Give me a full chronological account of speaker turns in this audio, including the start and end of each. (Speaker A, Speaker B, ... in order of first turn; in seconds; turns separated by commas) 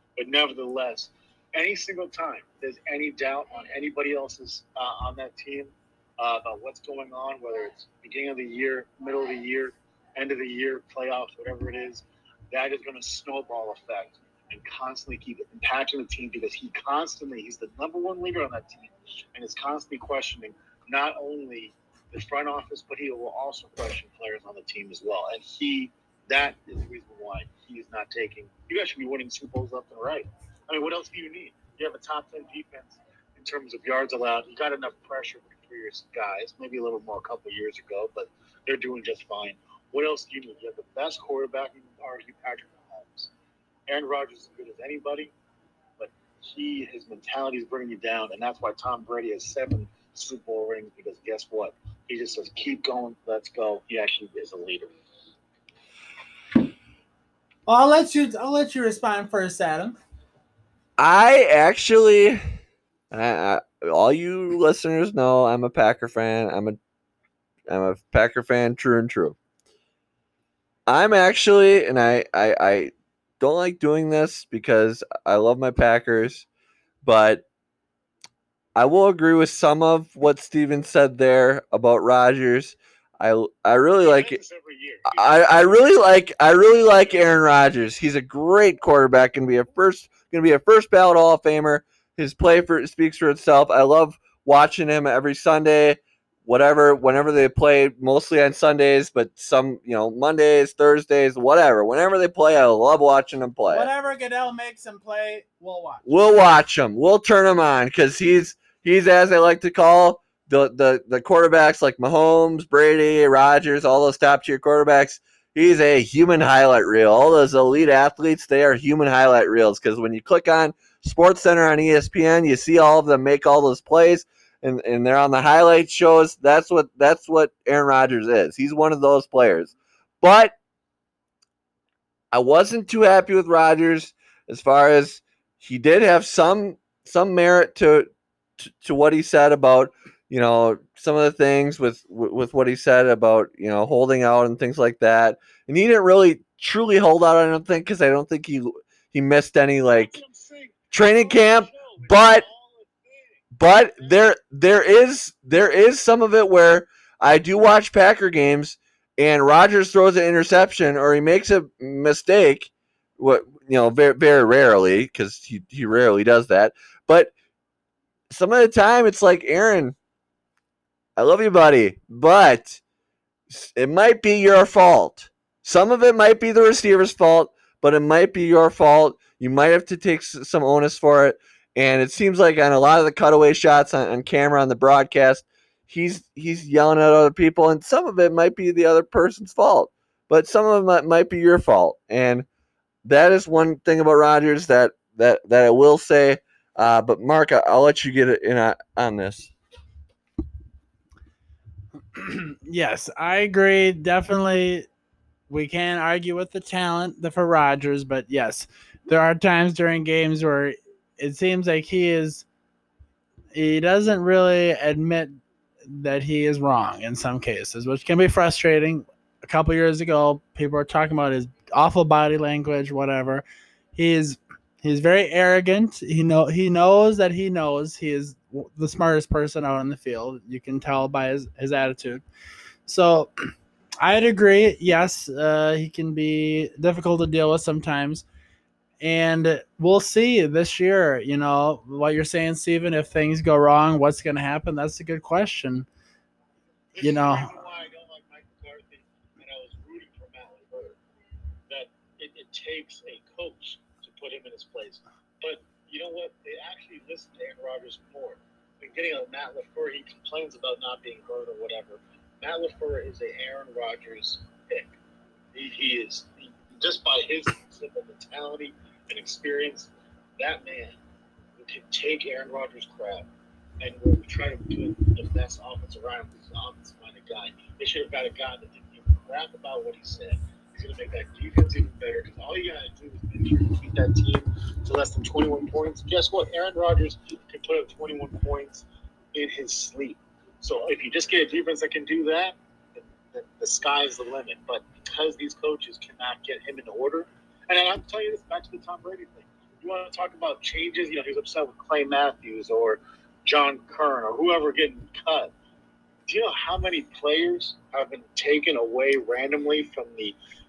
Speaker A: 0.2-43.3, Speaker A: 43.9-45.3, Speaker A: 46.0-54.9, Speaker B: 57.7-60.0, Speaker C: 61.0-62.4, Speaker C: 63.1-66.8, Speaker C: 67.7-69.4, Speaker C: 70.9-76.5, Speaker C: 77.0-77.4, Speaker C: 78.8-84.4, Speaker A: 84.0-85.8, Speaker C: 85.1-103.9, Speaker B: 103.7-106.1, Speaker C: 106.0-130.5, Speaker C: 132.3-138.1, Speaker C: 138.6-150.2, Speaker A: 149.9-154.2, Speaker C: 150.9-152.4, Speaker C: 153.6-167.3, Speaker C: 168.3-169.9, Speaker C: 171.2-172.8, Speaker C: 173.5-192.4, Speaker C: 193.0-199.5, Speaker B: 202.1-204.9, Speaker B: 205.5-212.4, Speaker B: 213.5-223.4, Speaker B: 223.9-232.2, Speaker B: 232.8-233.3, Speaker B: 234.0-238.2, Speaker B: 239.0-245.9, Speaker A: 246.9-251.0, Speaker B: 247.0-247.6, Speaker A: 251.7-264.9, Speaker A: 265.5-271.0, Speaker A: 271.6-273.3, Speaker A: 273.8-305.5, Speaker A: 306.3-310.4